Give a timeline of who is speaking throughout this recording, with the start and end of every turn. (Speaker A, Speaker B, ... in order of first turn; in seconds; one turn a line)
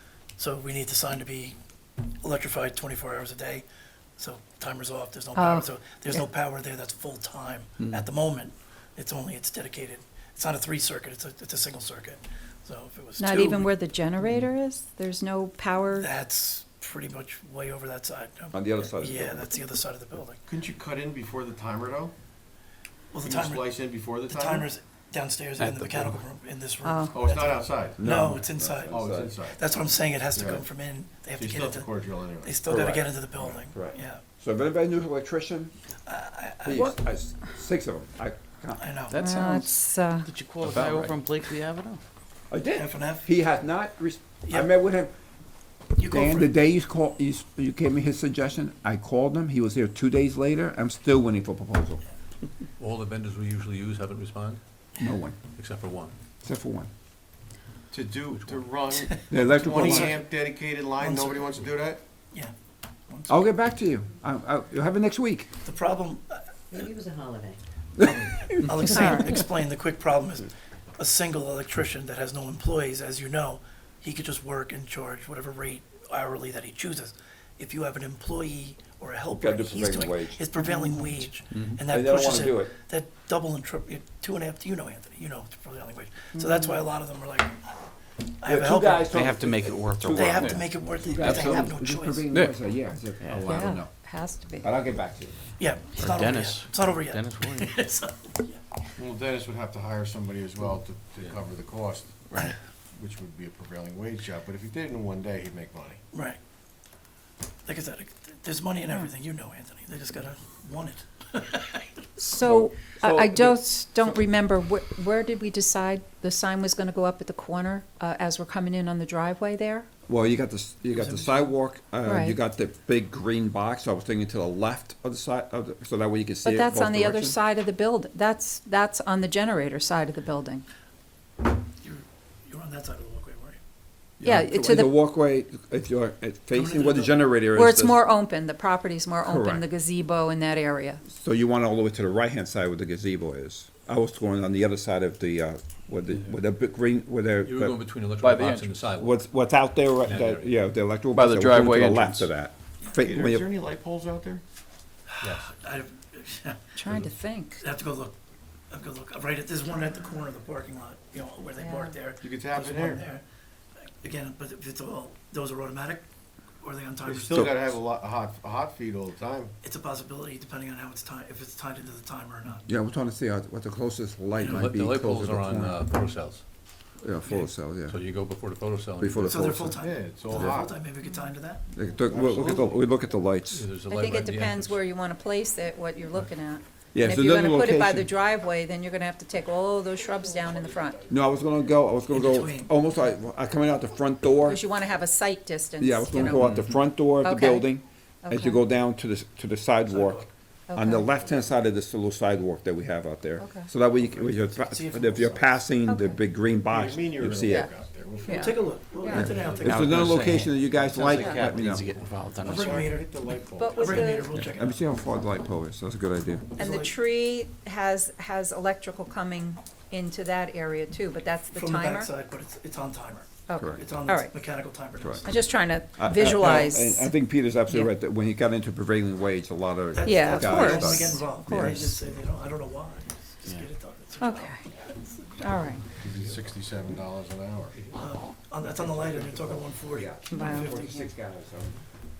Speaker A: 0.4-1.6
Speaker A: 2.2-3.6
Speaker A: 4.2-13.7
Speaker B: 5.3-6.2
Speaker B: 13.2-16.1
Speaker A: 15.9-20.4
Speaker C: 18.5-19.5
Speaker D: 20.4-22.1
Speaker A: 23.1-34.2
Speaker D: 23.2-24.7
Speaker E: 25.6-26.1
Speaker B: 26.8-27.2
Speaker D: 27.1-28.0
Speaker C: 28.0-29.3
Speaker D: 28.9-29.7
Speaker D: 30.3-30.7
Speaker D: 31.4-32.6
Speaker C: 32.7-35.7
Speaker A: 36.1-36.9
Speaker C: 36.6-38.8
Speaker A: 38.8-39.1
Speaker E: 39.1-42.0
Speaker B: 39.1-40.3
Speaker C: 40.7-41.0
Speaker C: 42.5-45.1
Speaker A: 42.8-43.3
Speaker A: 46.0-46.5
Speaker C: 46.0-52.0
Speaker F: 52.8-54.6
Speaker C: 55.0-55.4
Speaker F: 55.5-56.1
Speaker C: 56.4-56.9
Speaker D: 57.9-62.0
Speaker F: 58.3-58.6
Speaker C: 59.3-60.2
Speaker A: 61.0-61.5
Speaker A: 63.1-63.5
Speaker C: 63.3-65.5
Speaker A: 65.6-66.8
Speaker G: 66.7-67.6
Speaker C: 68.0-68.4
Speaker A: 68.0-87.6
Speaker B: 68.8-69.3
Speaker C: 79.3-80.5
Speaker B: 80.6-81.2
Speaker C: 81.5-82.7
Speaker B: 86.3-86.8
Speaker A: 88.4-89.2
Speaker C: 88.4-93.9
Speaker E: 89.0-90.7
Speaker A: 90.1-92.2
Speaker E: 91.2-91.6
Speaker B: 93.5-94.7
Speaker C: 94.5-95.3
Speaker A: 95.6-98.6
Speaker E: 96.0-97.8
Speaker D: 99.0-106.0
Speaker A: 106.1-106.4
Speaker A: 107.6-111.9
Speaker B: 112.2-119.9
Speaker C: 112.4-113.6
Speaker C: 120.1-127.4
Speaker A: 120.9-121.5
Speaker B: 122.0-122.4
Speaker B: 126.4-130.6
Speaker A: 131.8-133.6
Speaker C: 134.2-138.0
Speaker B: 134.2-135.0
Speaker A: 136.5-137.2
Speaker B: 137.5-141.0
Speaker C: 139.2-139.6
Speaker C: 141.1-147.7
Speaker F: 147.4-149.2
Speaker G: 148.2-148.8
Speaker E: 148.2-148.6
Speaker C: 149.0-153.5
Speaker F: 150.0-150.5
Speaker E: 151.1-152.3
Speaker G: 151.2-151.8
Speaker D: 152.9-154.4
Speaker F: 155.2-155.6
Speaker A: 155.2-156.6
Speaker B: 156.7-157.6
Speaker A: 157.6-158.2
Speaker A: 158.7-163.2
Speaker B: 161.6-161.9
Speaker D: 162.2-163.0
Speaker A: 164.0-166.0
Speaker A: 166.6-167.7
Speaker D: 167.0-169.5
Speaker A: 169.6-172.6
Speaker C: 172.7-175.8
Speaker F: 174.4-176.4
Speaker C: 177.0-178.0
Speaker A: 177.2-177.5
Speaker F: 177.8-179.5
Speaker C: 179.0-179.8
Speaker A: 179.2-181.6
Speaker D: 179.8-180.7
Speaker C: 180.3-180.6
Speaker C: 181.7-183.7
Speaker D: 182.0-182.8
Speaker F: 183.5-184.8
Speaker B: 183.9-191.1
Speaker C: 186.9-188.1
Speaker C: 191.1-194.6
Speaker A: 192.1-192.7
Speaker B: 194.4-197.7
Speaker C: 195.8-207.7
Speaker B: 198.2-198.6
Speaker A: 199.9-200.3
Speaker B: 200.7-201.1
Speaker D: 201.2-201.5
Speaker B: 203.4-203.7
Speaker A: 204.0-205.6
Speaker B: 205.8-206.2
Speaker D: 206.6-208.7
Speaker B: 208.2-209.3
Speaker A: 208.3-210.3
Speaker F: 209.1-210.1
Speaker C: 209.1-211.9
Speaker E: 209.6-212.9
Speaker D: 212.4-214.2
Speaker A: 212.4-213.1
Speaker B: 213.6-214.3
Speaker A: 213.7-214.8
Speaker C: 214.4-216.5
Speaker A: 216.5-216.9
Speaker B: 216.6-222.1
Speaker A: 221.5-225.3
Speaker B: 223.5-224.3
Speaker C: 223.5-223.8
Speaker C: 225.0-225.3
Speaker B: 225.2-227.1
Speaker C: 225.8-232.0
Speaker B: 227.7-227.9
Speaker A: 229.9-235.4
Speaker B: 230.0-232.0
Speaker B: 234.2-234.6
Speaker B: 235.4-235.8
Speaker D: 236.0-237.8
Speaker F: 236.1-236.5
Speaker A: 237.9-241.1
Speaker C: 239.0-241.7
Speaker B: 240.3-240.7